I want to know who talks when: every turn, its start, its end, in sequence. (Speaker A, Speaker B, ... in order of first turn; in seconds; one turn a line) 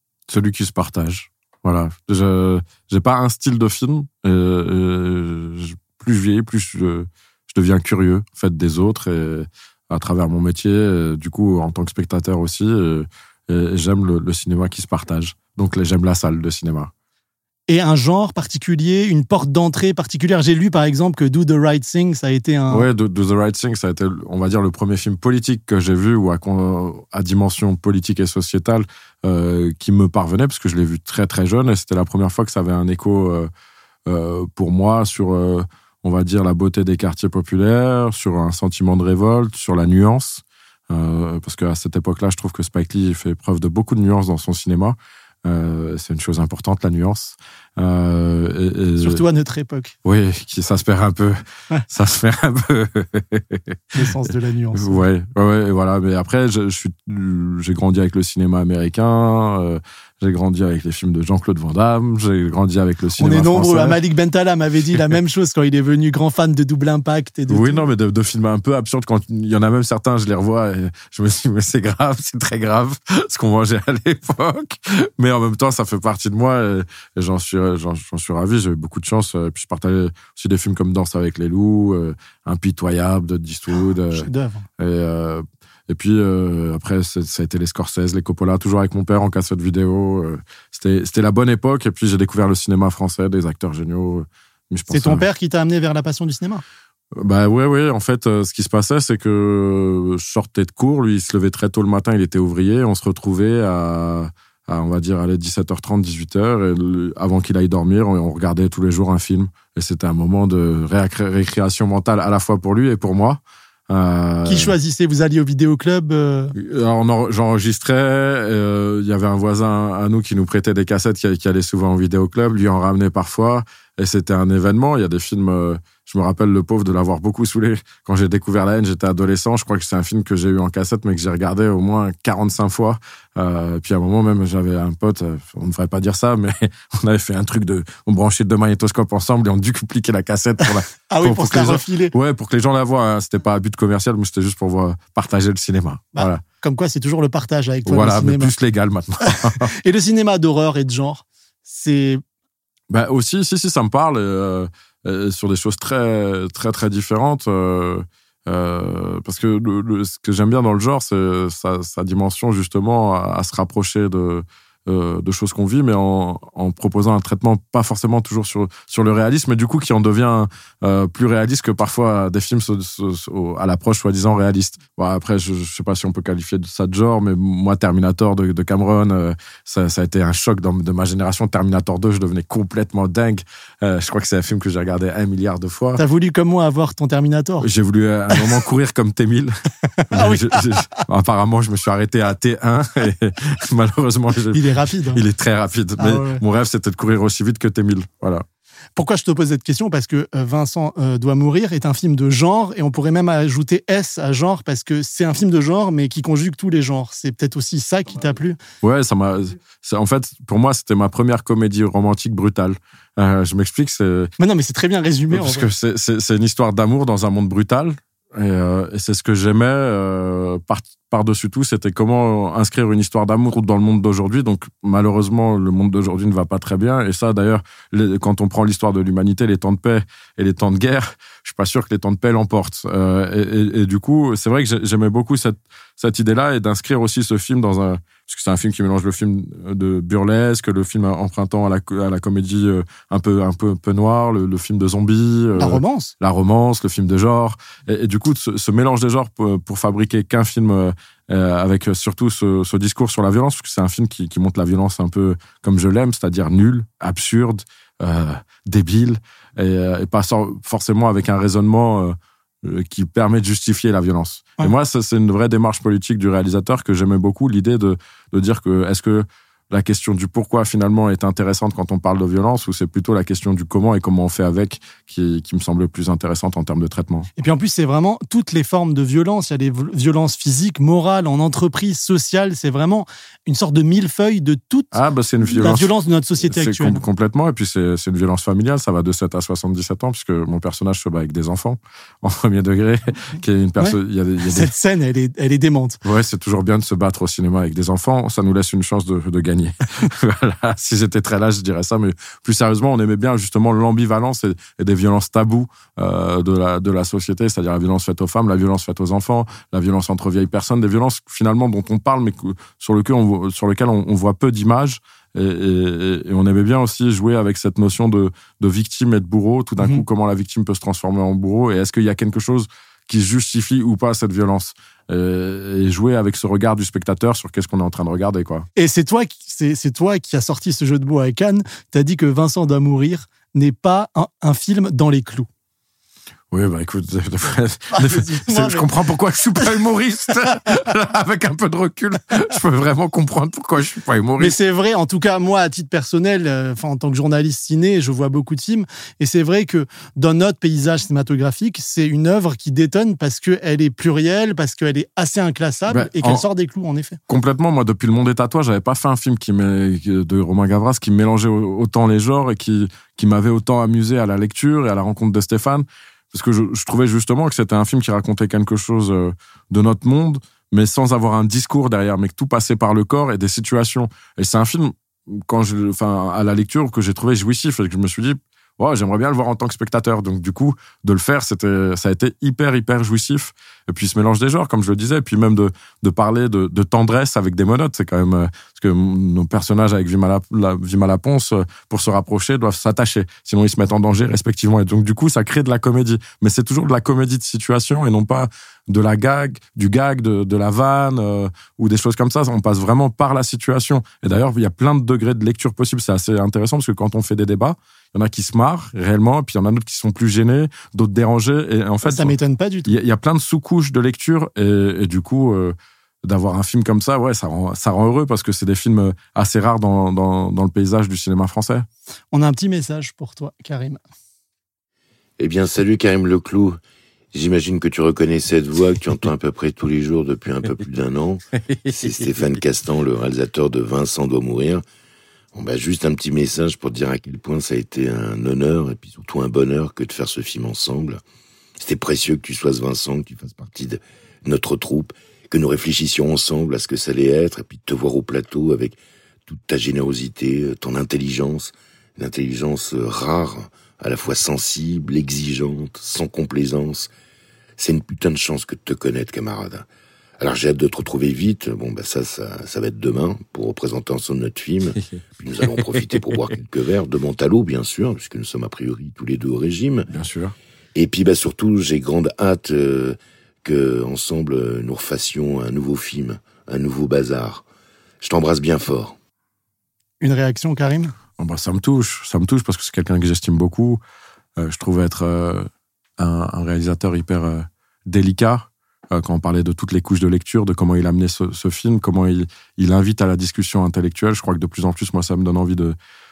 Speaker A: 0.3-16.9
Speaker B: 17.7-22.9
Speaker A: 22.7-33.5
Speaker A: 34.1-49.2
Speaker B: 49.0-50.0
Speaker A: 50.0-54.1
Speaker B: 53.9-55.0
Speaker A: 54.7-64.0
Speaker B: 63.2-67.8
Speaker A: 67.5-84.3
Speaker B: 84.1-84.7
Speaker A: 84.8-95.2
Speaker B: 94.9-96.6
Speaker A: 97.2-114.7
Speaker B: 114.5-116.5
Speaker A: 116.6-146.4
Speaker B: 141.1-142.1
Speaker B: 146.2-148.5
Speaker A: 147.9-149.7
Speaker B: 149.3-152.2
Speaker A: 152.9-186.0
Speaker B: 186.0-187.7
Speaker A: 187.6-189.6
Speaker B: 190.1-190.6
Speaker A: 190.1-198.4
Speaker B: 194.5-195.2
Speaker B: 196.0-196.4
Speaker B: 199.0-208.6
Speaker A: 208.8-214.3
Speaker B: 214.4-215.7
Speaker A: 215.3-277.3
Speaker B: 245.6-246.1
Speaker B: 277.4-284.9
Speaker A: 284.9-294.7
Speaker B: 285.5-287.0
Speaker B: 294.5-296.0
Speaker A: 296.0-328.7
Speaker B: 328.8-335.5
Speaker A: 336.5-344.6
Speaker B: 337.9-338.9
Speaker B: 344.4-357.2
Speaker A: 355.9-356.4
Speaker A: 357.3-421.9
Speaker B: 412.0-412.9
Speaker B: 422.3-424.0
Speaker C: 425.4-426.8
Speaker C: 427.3-434.8
Speaker C: 435.5-441.2
Speaker C: 441.8-457.1
Speaker C: 457.8-459.9
Speaker C: 460.4-470.1
Speaker A: 470.1-470.5
Speaker C: 470.9-477.6
Speaker C: 478.2-479.2
Speaker B: 480.2-481.1
Speaker A: 481.4-484.0
Speaker A: 484.6-496.0